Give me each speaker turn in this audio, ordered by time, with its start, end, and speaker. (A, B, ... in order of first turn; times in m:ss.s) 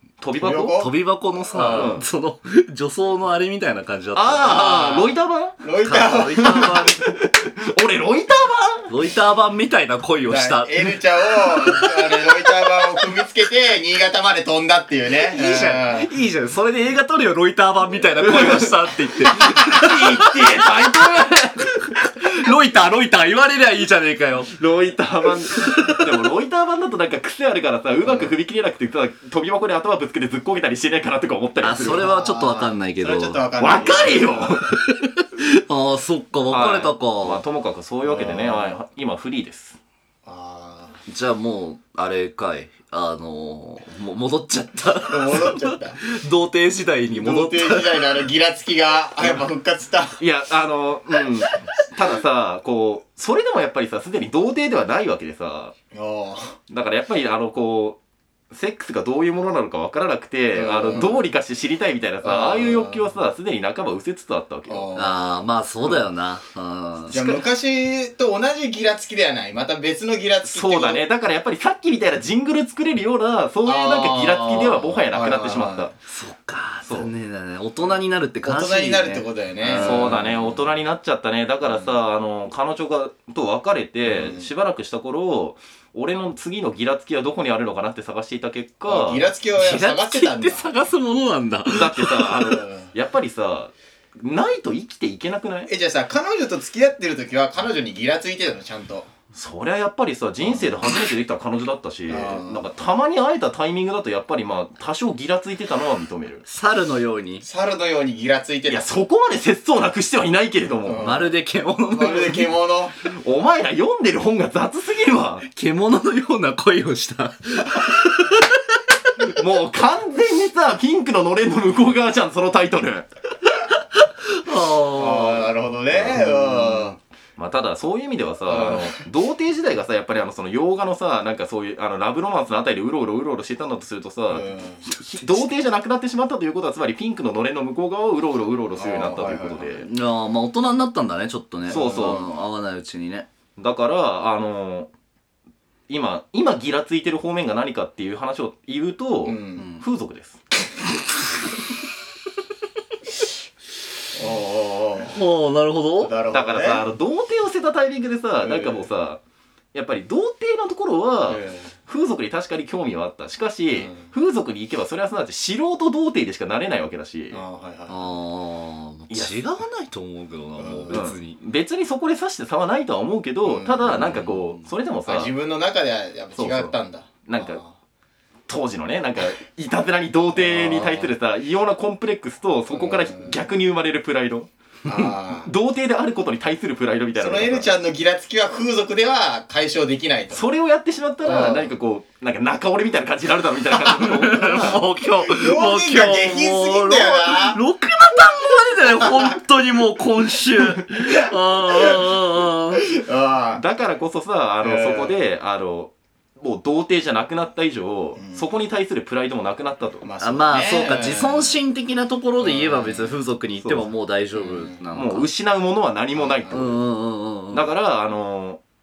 0:00.2-0:00.8 A
0:00.3-0:02.0 B
0:00.8-0:04.8 C
0:01.6-0:02.0 A
0:04.1-0:05.6 A
0:04.4-0:06.9 B
0:05.8-0:07.0 C
0:06.4-0:08.9 A
0:08.9-0:11.9 C
0:10.2-0:16.1 B
0:15.1-0:20.9 C
0:18.2-0:21.9 A
0:22.2-0:24.5 C
0:24.5-0:32.1 A
0:28.0-0:28.3 B
0:31.6-0:33.5 C
0:31.8-0:34.6 B
0:33.6-0:34.8 A
0:35.2-0:37.4 C
0:36.4-0:39.8 A
0:38.0-0:38.8 B
0:40.2-0:41.0 B
0:41.1-0:48.2 C
0:45.1-0:46.0 B
0:47.1-0:50.2 B
0:50.2-0:55.7 A
0:55.9-0:56.6 B
0:56.7-0:58.0 A
0:58.5-1:04.9 A
1:00.5-1:01.3 B
1:02.2-1:03.1 B
1:04.7-1:05.3 B
1:04.9-1:07.3 C
1:07.1-1:11.0 B
1:07.1-1:07.4 A
1:10.4-1:15.9 A
1:13.6-1:15.9 B
1:16.1-1:20.5 C
1:17.8-1:20.4 B
1:19.7-1:29.3 A
1:21.6-1:22.0 B
1:24.0-1:24.5 B
1:28.8-1:30.8 B
1:29.5-1:32.5 C
1:31.7-1:35.7 A
1:32.4-1:32.9 B
1:35.6-1:39.1 B
1:39.3-1:46.4 A
1:40.4-1:40.8 B
1:42.1-1:42.7 B
1:46.5-1:47.4 C
1:47.4-1:48.8 B
1:48.7-1:51.1 A
1:50.8-1:51.3 B
1:51.0-1:52.5 C
1:51.9-1:53.0 B
1:53.0-1:55.4 A
1:55.4-1:58.6 C
1:59.2-2:03.1 A
2:04.0-2:05.5 C
2:04.9-2:07.0 B
2:05.9-2:06.2 A
2:06.1-2:07.0 C
2:07.4-2:19.9 A
2:08.5-2:08.9 B
2:14.3-2:14.8 B
2:18.7-2:19.7 B
2:19.8-2:23.3 C
2:21.6-2:22.3 B
2:21.7-2:22.2 A
2:23.6-2:24.9 A
2:25.9-2:30.4 A
2:29.2-2:29.7 B
2:29.6-2:29.8 C
2:34.1-2:35.2 B
2:35.0-2:36.1 C
2:36.0-2:36.9 B
2:36.3-2:39.2 A
2:38.4-2:38.9 B
2:39.7-2:47.4 A
2:41.2-2:41.7 B
2:43.7-2:44.1 B
2:47.3-2:48.2 B
2:47.9-2:51.4 C
2:49.1-2:49.5 A
2:50.6-2:51.1 B
2:50.9-2:55.3 A
2:53.4-2:54.0 B
2:53.8-2:54.6 C
2:55.0-2:57.7 B
2:56.3-2:57.6 A
2:58.5-3:04.5 A
3:00.3-3:01.1 B
3:02.7-3:03.4 B
3:04.8-3:05.5 B
3:05.4-3:07.7 A
3:07.2-3:10.4 B
3:10.3-3:14.8 A
3:11.2-3:11.7 B
3:13.8-3:22.8 C
3:14.3-3:14.7 B
3:15.2-3:17.6 B
3:22.8-3:23.6 B
3:23.5-3:30.1 A
3:24.6-3:25.2 B
3:28.2-3:28.5 B
3:30.0-3:31.6 B
3:30.2-3:35.3 C
3:32.4-3:33.2 B
3:33.6-3:33.9 A
3:34.3-3:34.8 B
3:34.9-3:36.9 A
3:36.1-3:36.6 B
3:36.5-3:37.7 C
3:37.5-3:38.6 A